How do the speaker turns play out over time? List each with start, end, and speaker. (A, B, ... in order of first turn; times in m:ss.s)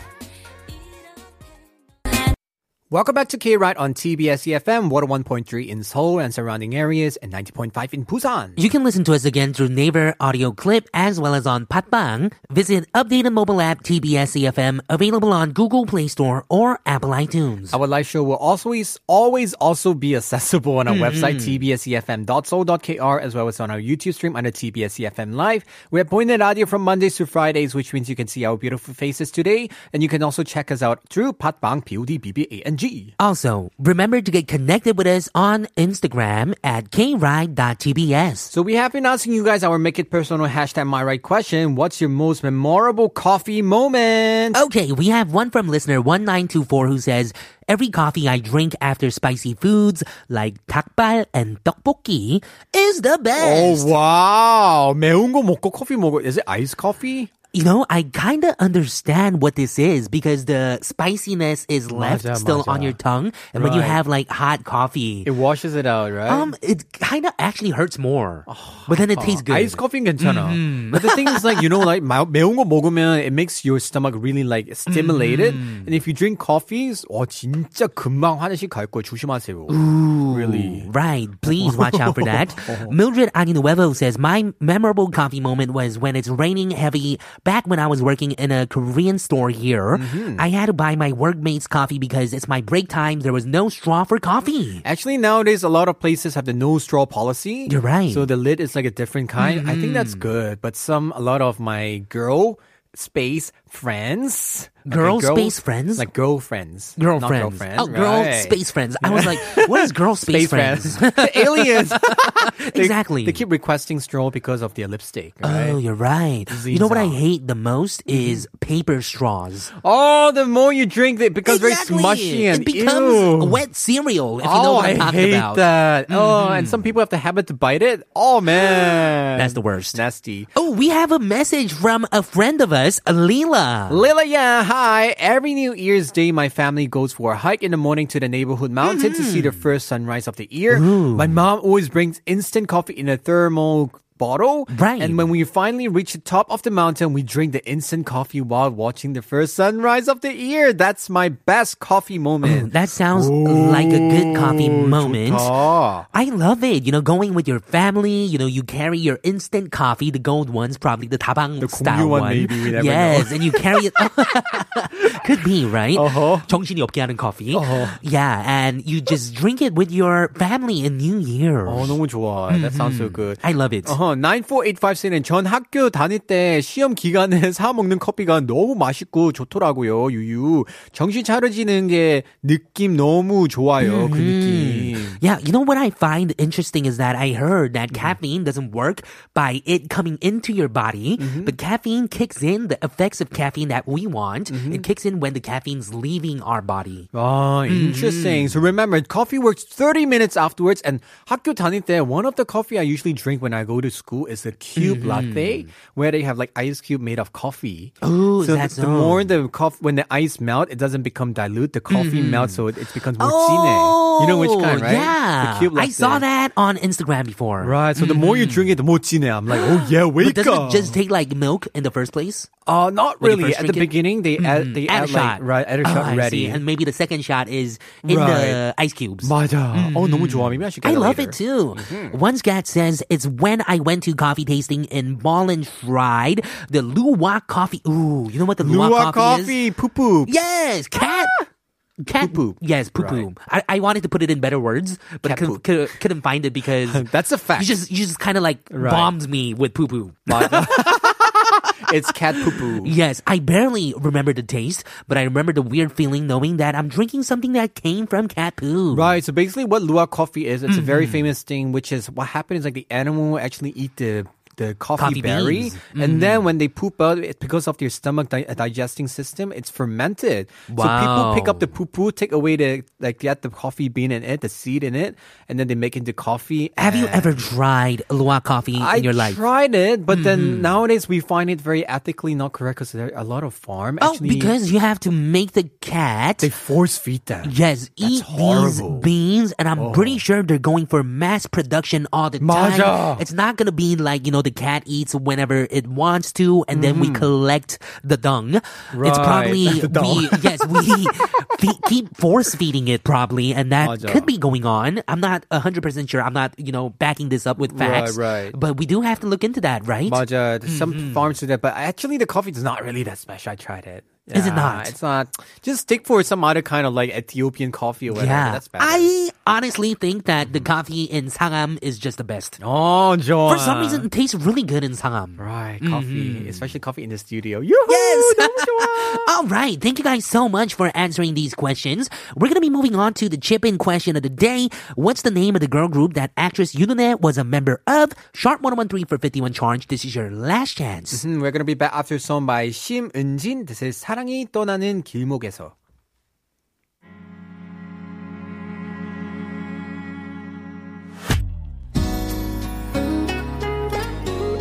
0:02.9-0:08.6 A
0:08.6-0:17.8 B
0:17.7-0:33.1 A
0:20.8-0:21.6 B
0:33.2-0:38.5 B
0:38.5-0:44.6 A
0:44.5-0:53.9 B
0:53.4-0:57.3 A
0:57.5-1:05.3 B
1:01.9-1:03.0 A
1:03.6-1:04.0 A
1:05.2-1:06.5 A
1:06.2-1:11.9 B
1:08.5-1:19.8 A
1:14.9-1:15.9 B
1:19.7-1:34.8 B
1:20.3-1:20.9 A
1:21.5-1:22.9 A
1:29.9-1:30.4 A
1:34.8-1:55.8 A
1:37.7-1:38.3 B
1:39.4-1:40.3 B
1:44.9-1:46.1 B
1:47.0-1:53.4 B
1:55.4-1:59.7 B
1:56.5-1:57.2 A
1:58.1-1:58.4 A
1:59.8-2:03.6 A
2:01.4-2:06.8 B
2:04.4-2:10.5 A
2:08.5-2:10.0 B
2:10.5-2:14.0 B
2:13.9-2:36.1 A
2:18.8-2:19.6 B
2:20.7-2:21.4 B
2:24.7-2:25.3 B
2:32.4-2:35.5 B
2:36.1-2:54.0 B
2:41.6-2:43.8 A
2:45.9-2:46.5 A
2:47.5-2:48.0 A
2:51.6-3:05.2 A
3:03.8-3:17.1 B
3:11.2-3:11.5 A
3:14.5-3:14.8 A
3:17.1-3:36.2 A
3:17.6-3:18.7 B
3:24.8-3:25.7 B
3:28.0-3:29.3 B
3:31.9-3:32.6 B
3:33.2-3:38.8 B
3:37.6-3:41.0 A
3:39.5-3:42.5 B
3:42.6-3:46.6 A
3:43.2-3:59.6 B
3:48.0-3:48.6 A
3:49.2-3:52.2 A
3:58.6-4:00.3 A
4:00.2-4:01.4 B
4:02.0-4:11.0 B
4:02.2-4:03.2 A
4:05.2-4:05.6 A
4:06.9-4:07.7 A
4:08.7-4:09.1 A
4:10.3-4:12.9 A
4:12.3-4:19.1 B
4:18.9-4:37.4 A
4:20.7-4:21.3 B
4:25.0-4:26.5 B
4:30.7-4:31.7 B
4:36.8-4:39.4 B
4:38.8-4:44.5 A
4:40.1-4:40.8 B
4:44.0-4:46.5 B
4:46.4-4:49.1 A
4:47.4-5:11.2 B
4:49.8-4:50.2 A
4:52.4-4:53.2 A
4:56.7-4:57.3 A
4:58.9-5:01.1 A
5:03.8-5:04.3 A
5:07.7-5:08.6 A
5:10.0-5:19.1 A
5:14.3-5:14.9 B
5:18.1-5:22.6 B
5:20.4-5:20.7 A
5:22.6-5:24.0 A
5:23.4-5:26.7 B
5:25.4-5:29.3 A
5:27.9-5:41.2 B
5:41.1-5:45.7 A